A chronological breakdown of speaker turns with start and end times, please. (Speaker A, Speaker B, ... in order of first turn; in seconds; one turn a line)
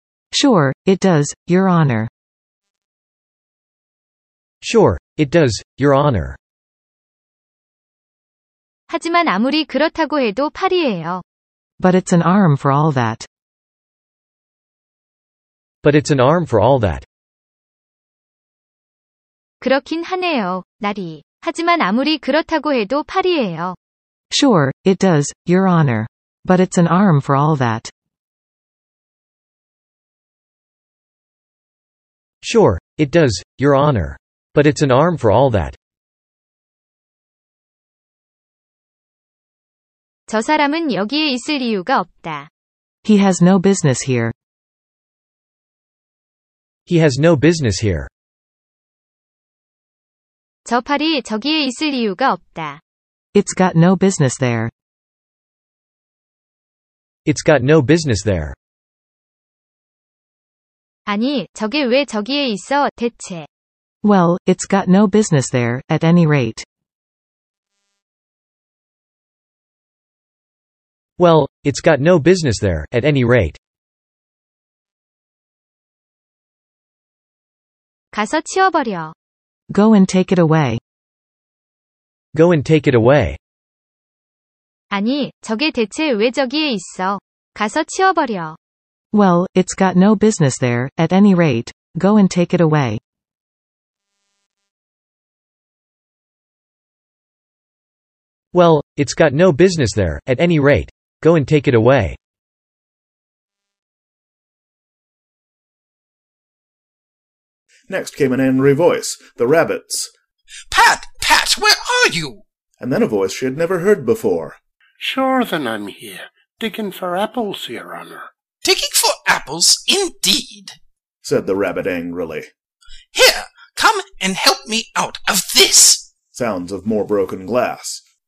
Speaker A: 0.3-2.1
Speaker B: 4.6-6.4
Speaker C: 8.9-11.2
Speaker A: 11.8-13.3
Speaker B: 15.8-17.1
Speaker C: 19.6-23.8
Speaker A: 24.3-27.9
Speaker B: 32.4-35.8
Speaker C: 40.3-42.5
Speaker A: 43.0-44.3
Speaker B: 46.9-48.1
Speaker C: 50.6-52.8
Speaker A: 53.3-54.7
Speaker B: 57.2-58.5
Speaker C: 61.1-63.5
Speaker A: 64.0-66.7
Speaker B: 71.2-73.6
Speaker C: 78.1-79.1
Speaker A: 79.7-80.8
Speaker B: 82.3-83.4
Speaker C: 84.9-88.6
Speaker A: 89.1-93.0
Speaker B: 98.5-102.2
Speaker D: 107.9-110.1
Speaker E: 110.7-112.4
Speaker D: 112.8-114.6
Speaker F: 115.0-118.3
Speaker E: 118.6-120.8
Speaker D: 121.2-122.5
Speaker E: 123.1-126.1
Speaker D: 126.3-128.0